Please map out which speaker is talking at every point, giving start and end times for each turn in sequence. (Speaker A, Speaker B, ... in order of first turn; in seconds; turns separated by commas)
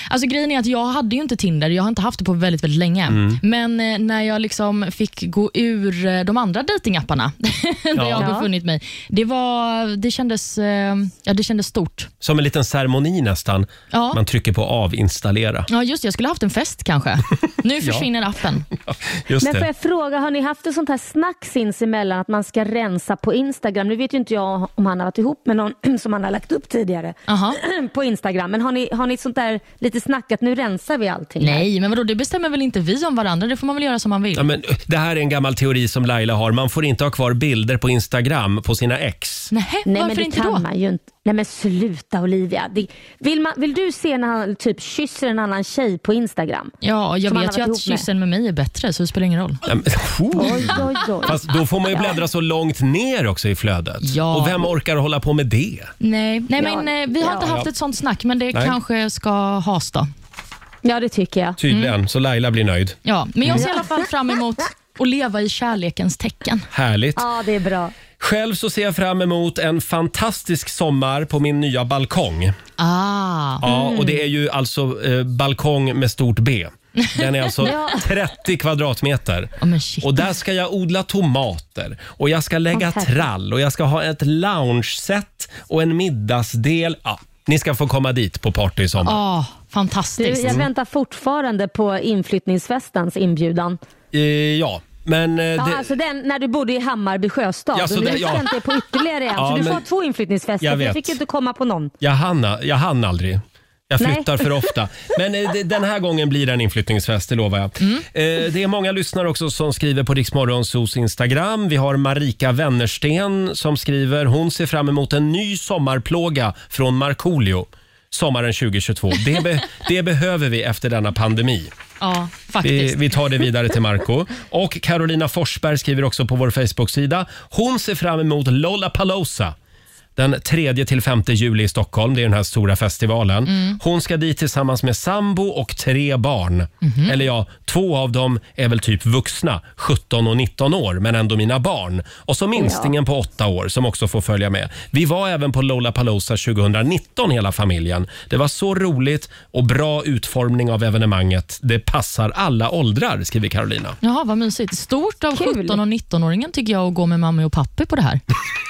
Speaker A: 0.1-12.1, Speaker B: 3.1-3.4, Speaker B: 7.9-8.3, Speaker C: 8.2-8.5, Speaker B: 12.2-15.7, Speaker A: 13.9-14.2, Speaker A: 15.7-18.7, Speaker B: 17.8-18.1, Speaker B: 18.8-19.7, Speaker C: 19.4-31.6, Speaker A: 27.3-27.6, Speaker A: 31.4-34.5, Speaker B: 34.4-39.5, Speaker A: 39.5-40.6, Speaker C: 39.9-46.7, Speaker A: 46.8-49.6, Speaker C: 47.3-48.0, Speaker B: 49.6-55.9, Speaker C: 50.4-51.4, Speaker A: 54.0-54.6, Speaker A: 56.0-60.1, Speaker C: 56.6-57.5, Speaker C: 60.8-61.6, Speaker B: 61.6-63.7, Speaker A: 63.0-66.7, Speaker C: 63.5-63.8, Speaker B: 66.7-67.2, Speaker C: 67.2-67.9, Speaker B: 68.2-72.6, Speaker A: 72.8-73.6, Speaker B: 73.6-89.2, Speaker C: 73.6-74.2, Speaker C: 77.6-78.1, Speaker A: 79.6-80.2, Speaker C: 82.7-83.2, Speaker A: 89.0-90.7, Speaker C: 90.2-93.8, Speaker B: 94.1-95.9, Speaker C: 95.6-101.9, Speaker B: 97.7-98.5, Speaker B: 99.3-99.8, Speaker B: 100.6-101.2, Speaker B: 102.0-121.7, Speaker C: 104.0-104.4, Speaker A: 122.0-123.1, Speaker B: 122.6-129.6, Speaker B: 130.2-154.0, Speaker A: 133.5-133.8, Speaker A: 136.8-137.1, Speaker C: 142.6-142.9, Speaker A: 154.0-158.2, Speaker C: 155.3-155.8